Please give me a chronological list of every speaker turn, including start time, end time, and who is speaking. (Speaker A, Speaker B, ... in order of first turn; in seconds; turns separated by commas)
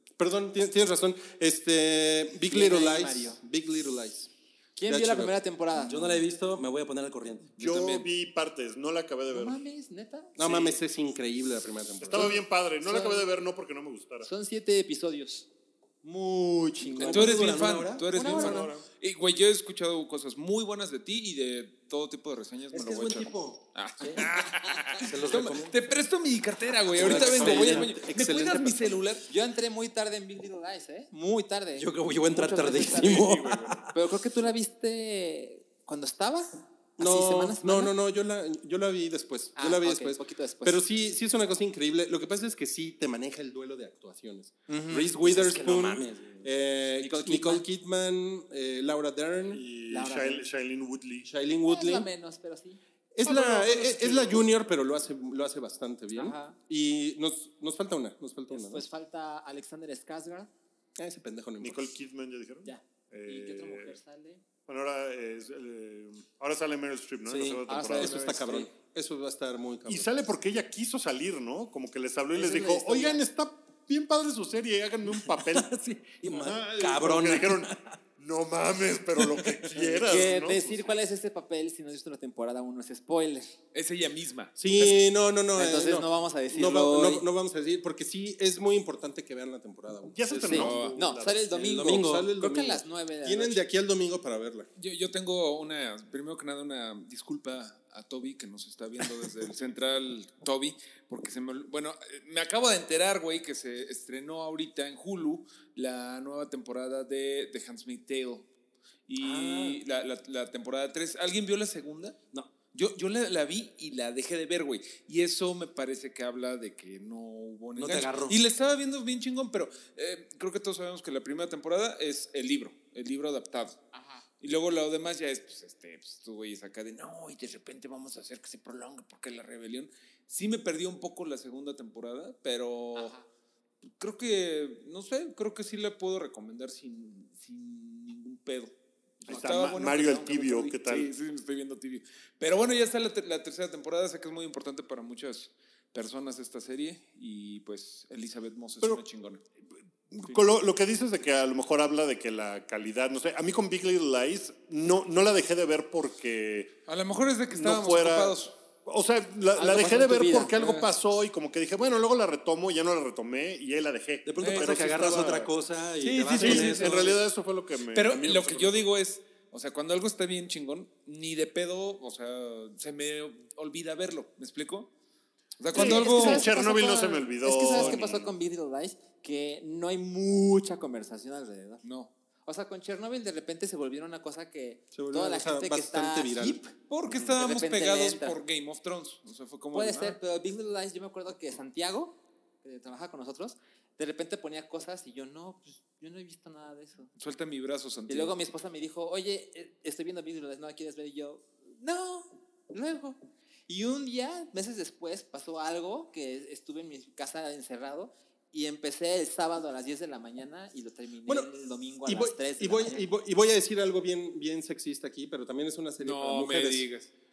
Speaker A: 0.2-4.3, Speaker B: 2.5-3.4, Speaker B: 4.8-6.2, Speaker A: 4.8-5.4, Speaker C: 5.9-7.6, Speaker D: 7.6-9.6, Speaker E: 7.6-8.0, Speaker B: 9.3-10.7, Speaker A: 10.4-12.4, Speaker D: 12.0-14.3, Speaker B: 12.8-13.3, Speaker B: 14.2-15.5, Speaker C: 16.1-18.7, Speaker B: 16.8-17.3, Speaker E: 17.0-29.3, Speaker D: 18.1-18.8, Speaker B: 18.2-18.7, Speaker C: 22.7-24.3, Speaker C: 25.0-25.8, Speaker C: 26.9-28.1, Speaker A: 26.9-29.0, Speaker B: 29.3-33.3, Speaker C: 31.8-34.0, Speaker E: 33.0-33.8, Speaker B: 33.9-37.9, Speaker A: 37.0-49.6, Speaker B: 39.5-40.8, Speaker B: 44.7-45.0, Speaker C: 44.9-46.5, Speaker B: 47.0-47.6, Speaker D: 49.5-51.3, Speaker B: 49.9-50.5, Speaker A: 51.2-52.1, Speaker B: 51.6-52.8, Speaker A: 53.1-58.8, Speaker B: 56.1-56.6, Speaker B: 58.5-60.5, Speaker A: 61.0-61.9, Speaker D: 61.6-64.0, Speaker B: 62.6-64.4, Speaker D: 64.7-68.2, Speaker C: 67.3-67.6, Speaker B: 67.7-68.7, Speaker A: 68.0-70.1, Speaker D: 69.8-75.7, Speaker B: 72.3-73.2, Speaker C: 75.2-77.9, Speaker D: 76.3-80.9, Speaker B: 80.0-83.5, Speaker E: 83.7-85.0, Speaker A: 84.6-90.9, Speaker B: 85.5-87.2, Speaker D: 90.1-91.5, Speaker B: 90.4-93.6, Speaker E: 90.5-91.0, Speaker A: 91.5-94.7, Speaker C: 91.8-92.2, Speaker E: 94.8-108.5, Speaker E: 109.1-112.2, Speaker C: 109.2-109.8, Speaker E: 112.7-123.8, Speaker C: 117.8-118.4, Speaker B: 123.9-124.2, Speaker E: 124.4-133.1, Speaker B: 132.9-133.2, Speaker E: 133.8-149.4, Speaker D: 139.2-141.1, Speaker D: 150.1-156.7, Speaker E: 156.9-158.5, Speaker D: 157.5-165.5, Speaker B: 159.5-160.5, Speaker E: 160.5-160.9, Speaker C: 164.2-167.2, Speaker E: 164.4-164.8, Speaker E: 166.0-167.2, Speaker D: 166.3-168.9, Speaker E: 167.9-174.9, Speaker E: 175.6-176.5, Speaker D: 175.7-178.3, Speaker B: 175.7-181.8, Speaker E: 181.8-182.1, Speaker B: 182.4-186.7, Speaker A: 184.9-186.6, Speaker E: 186.9-190.2, Speaker B: 187.4-188.4, Speaker B: 189.7-197.1, Speaker E: 197.2-198.3, Speaker B: 198.1-213.0, Speaker A: 212.0-216.9, Speaker E: 216.0-217.1